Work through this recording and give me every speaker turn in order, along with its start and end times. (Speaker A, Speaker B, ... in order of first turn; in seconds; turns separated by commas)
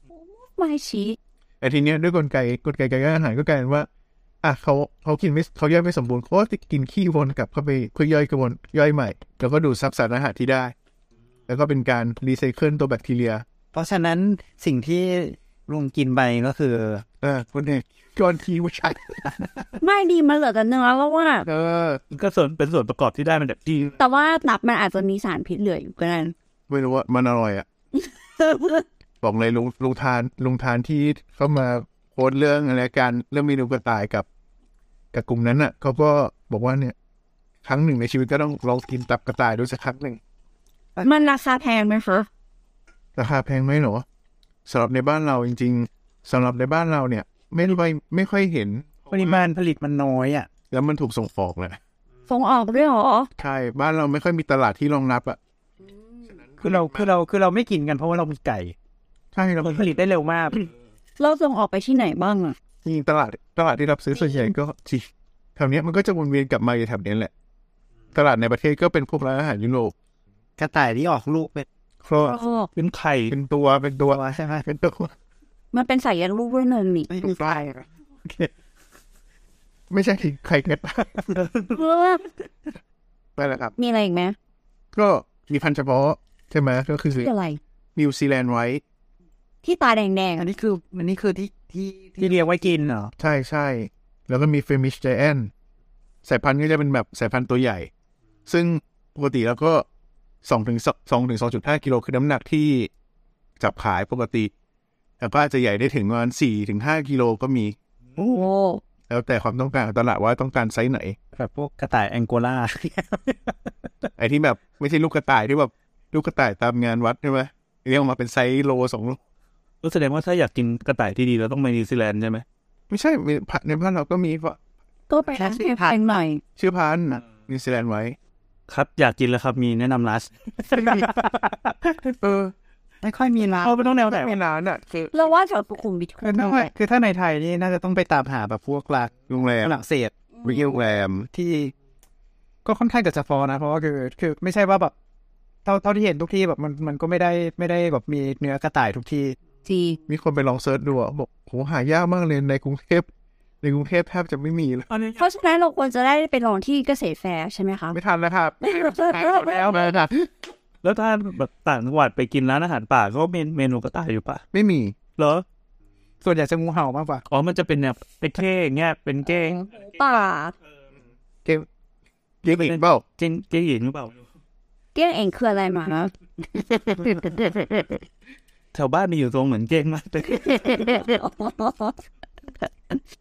Speaker A: 0.1-1.2, Speaker B: 1.6-3.9, Speaker B: 4.4-10.7, Speaker B: 11.5-13.4, Speaker C: 13.7-17.0, Speaker B: 17.2-19.6, Speaker A: 19.8-21.5, Speaker B: 21.5-22.0, Speaker D: 22.1-24.0, Speaker A: 24.0-26.3, Speaker B: 26.7-27.7, Speaker A: 28.4-28.8, Speaker B: 29.2-34.3, Speaker B: 35.1-37.0, Speaker B: 37.6-40.2, Speaker A: 41.0-42.3, Speaker B: 43.2-44.0, Speaker B: 44.7-49.4, Speaker E: 49.1-50.5, Speaker B: 50.7-51.8, Speaker A: 52.3-53.3, Speaker B: 53.4-55.4, Speaker B: 56.3-57.1, Speaker E: 56.6-58.7, Speaker B: 59.3-59.8, Speaker E: 59.6-60.6, Speaker A: 61.2-62.6, Speaker B: 62.9-67.3, Speaker B: 68.1-69.9, Speaker C: 70.6-71.7, Speaker B: 72.0-72.4, Speaker A: 72.2-72.7, Speaker D: 72.8-73.3, Speaker B: 73.3-75.1, Speaker C: 74.1-74.6, Speaker A: 75.7-77.1, Speaker C: 77.2-77.8, Speaker B: 79.9-81.3, Speaker A: 81.6-82.3, Speaker B: 83.4-83.7, Speaker A: 83.8-84.4, Speaker B: 84.9-87.3, Speaker A: 87.1-87.6, Speaker B: 88.0-88.8, Speaker A: 89.6-90.5, Speaker C: 90.4-92.3, Speaker E: 92.2-93.1, Speaker B: 93.2-95.5, Speaker B: 96.2-97.9, Speaker B: 98.5-99.9, Speaker B: 100.4-102.9, Speaker B: 103.6-104.5, Speaker B: 105.2-107.8, Speaker A: 108.3-108.8, Speaker B: 109.1-111.2, Speaker E: 111.3-113.5, Speaker B: 114.2-119.2, Speaker D: 119.8-122.4, Speaker B: 122.9-124.6, Speaker A: 125.1-126.4, Speaker C: 125.3-126.0, Speaker B: 126.6-128.2, Speaker D: 128.7-130.3, Speaker E: 130.8-131.1, Speaker B: 132.2-132.5, Speaker C: 133.0-133.7, Speaker D: 133.6-134.3, Speaker B: 134.1-135.1, Speaker A: 135.1-136.7, Speaker E: 136.2-140.1, Speaker B: 139.3-139.7, Speaker B: 140.4-141.3, Speaker E: 141.3-141.7, Speaker E: 142.7-144.9, Speaker E: 145.7-149.4, Speaker A: 149.7-150.0, Speaker B: 150.1-153.1, Speaker B: 153.6-154.9, Speaker D: 154.9-155.2, Speaker A: 155.2-158.0, Speaker B: 157.9-160.3, Speaker A: 158.6-159.9, Speaker D: 160.8-164.4, Speaker B: 164.5-165.0, Speaker D: 165.2-165.4, Speaker E: 166.2-167.2, Speaker D: 167.3-169.7, Speaker A: 169.5-170.5, Speaker B: 172.4-173.1, Speaker D: 172.5-174.2, Speaker A: 174.9-176.1, Speaker D: 178.7-180.8, Speaker A: 180.6-182.0